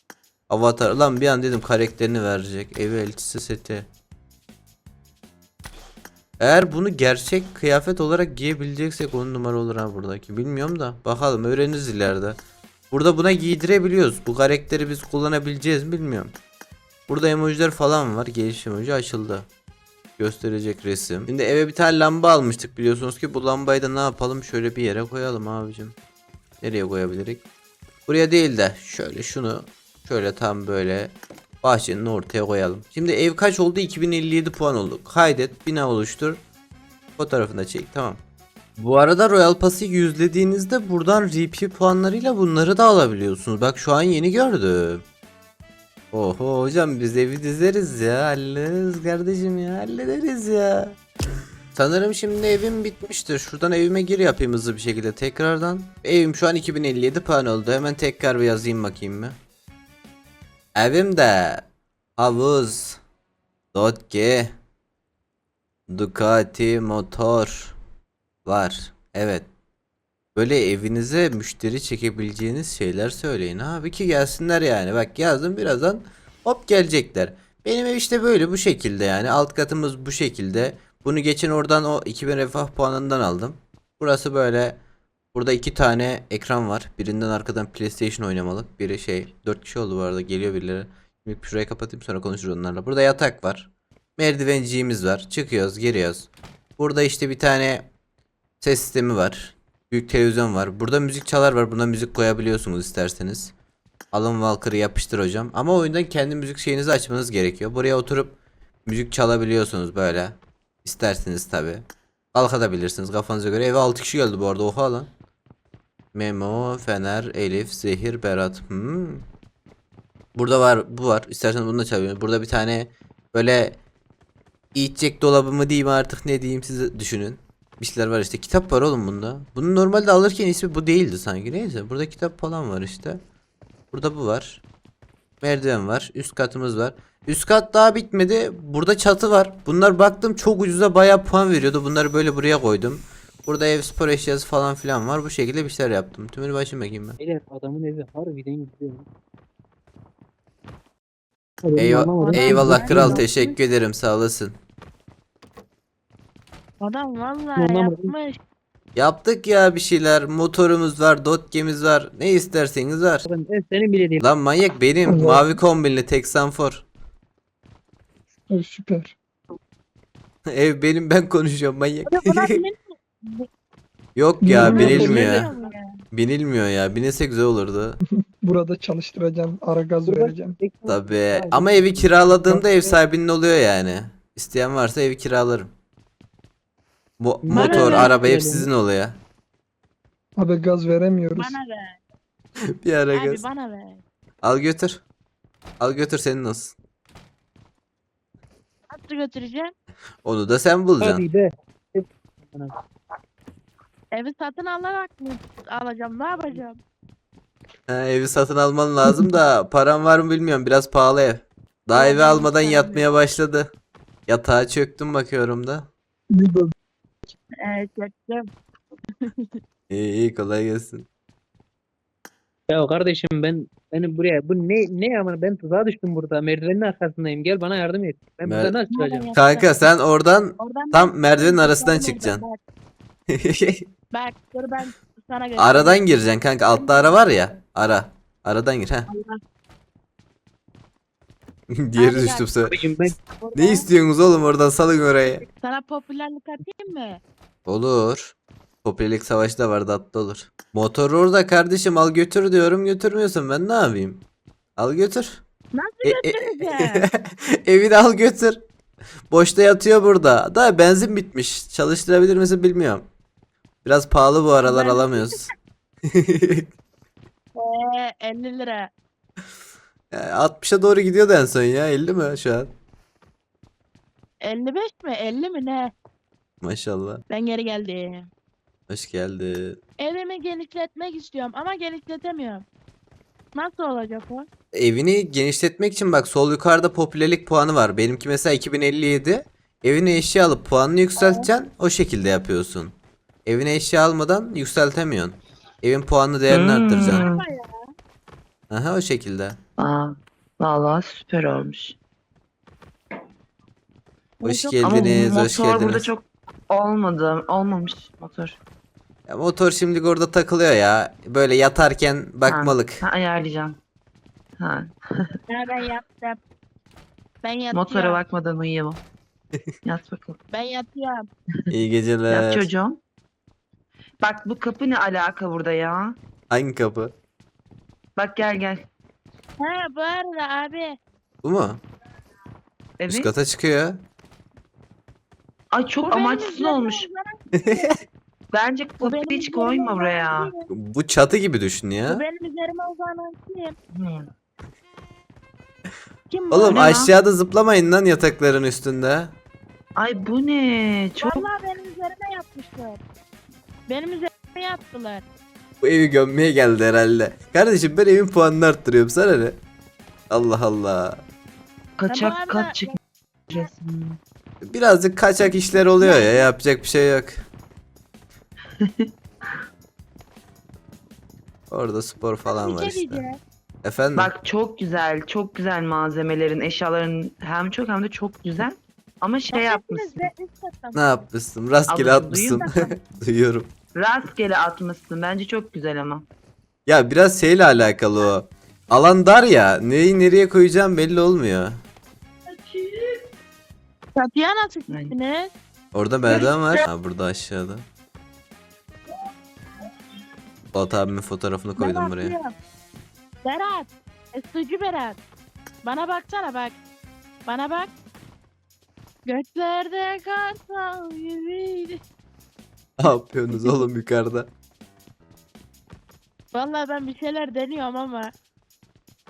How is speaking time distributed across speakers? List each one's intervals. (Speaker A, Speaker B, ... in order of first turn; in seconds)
Speaker A: 0.5-3.9, 6.4-12.4, 12.9-16.3, 17.1-19.5, 20.2-25.9, 26.6-27.4, 28.1-36.4, 37.2-38.2, 38.8-45.0, 46.1-51.0, 51.7-59.4, 60.8-61.6, 62.2-63.0, 63.7-64.5, 65.9-67.8, 68.4-69.5, 70.3-84.8, 85.3-97.9, 98.6-103.5, 104.1-115.1, 116.1-119.2, 120.3-123.8, 124.8-133.2, 133.9-134.6, 135.4-147.2, 151.8-154.6, 158.9-163.3, 164.2-166.8, 170.4-172.6, 174.2-175.5, 176.1-178.0, 180.9-185.7, 187.2-189.2, 192.8-193.4, 194.4-195.0, 195.8-196.8, 200.2-201.2, 207.9-213.7, 214.3-215.9, 219.9-221.1, 228.4-228.8, 229.3-232.4, 233.3-233.8, 235.6-239.1, 241.7-242.8, 243.5-245.4, 247.7-254.2, 254.8-255.4, 256.0-258.6, 259.3-263.0, 263.8-265.5, 266.1-266.7, 270.1-272.7, 276.6-277.2, 278.9-279.8, 284.7-297.2, 298.7-299.6, 304.4-306.1, 309.3-313.0, 321.7-322.7, 326.5-327.1, 331.4-331.8, 333.1-334.0, 337.5-338.0, 340.7-342.2, 346.5-349.3, 355.8-359.6, 360.3-361.2, 364.6-367.5, 371.7-373.2, 373.8-374.3, 380.9-383.7, 386.9-391.8, 395.9-397.9, 400.7-402.3, 413.0-414.5
Speaker B: 147.2-149.1, 151.6-153.3, 157.6-158.1, 163.3-164.2, 174.7-175.5, 180.0-183.0, 187.4-188.7, 201.0-202.8, 222.7-229.3, 242.6-243.2
Speaker C: 152.2-153.5, 156.8-158.4, 172.1-173.5, 174.6-176.0, 187.5-188.2, 191.3-192.0, 193.1-194.0, 198.9-199.7, 204.1-206.8, 211.9-213.1, 217.6-218.5, 219.2-219.6, 228.9-229.9, 230.6-232.6, 234.1-236.0, 236.7-237.6, 239.1-239.4, 242.0-242.5, 243.3-243.9, 245.4-247.2, 255.7-257.1, 264.6-265.3, 267.5-268.9, 274.4-275.9, 277.3-278.3, 280.0-282.6, 283.5-284.5, 291.2-291.4, 297.0-297.9, 304.4-305.1, 315.5-316.4, 317.4-318.2, 320.5-321.3, 329.6-331.0, 336.0-337.9, 339.0-340.7, 342.1-343.8, 346.3-347.0, 351.2-353.0, 353.9-355.2, 362.1-362.9, 366.0-366.5, 372.5-373.4, 379.5-381.0, 394.1-395.5, 401.8-402.5, 403.4-405.2, 405.8-406.8, 407.5-407.9, 409.2-412.0, 413.5-413.8, 416.5-418.3
Speaker D: 165.1-165.6, 168.5-169.2, 174.4-175.5, 178.3-180.6, 190.3-191.6, 216.3-216.7
Speaker E: 296.5-297.5, 299.8-302.0, 304.8-308.6, 312.5-313.8, 314.6-315.4, 317.7-319.0, 319.8-320.4, 322.3-323.0, 324.2-326.2, 328.2-328.9, 333.0-333.3, 335.7-337.1, 338.5-340.5, 343.9-344.3, 346.7-347.1, 350.0-351.5, 362.0-363.0, 363.5-364.2, 368.8-369.6, 374.1-380.3, 381.9-382.9, 384.0-386.2, 392.5-393.2, 394.9-395.1, 396.3-396.8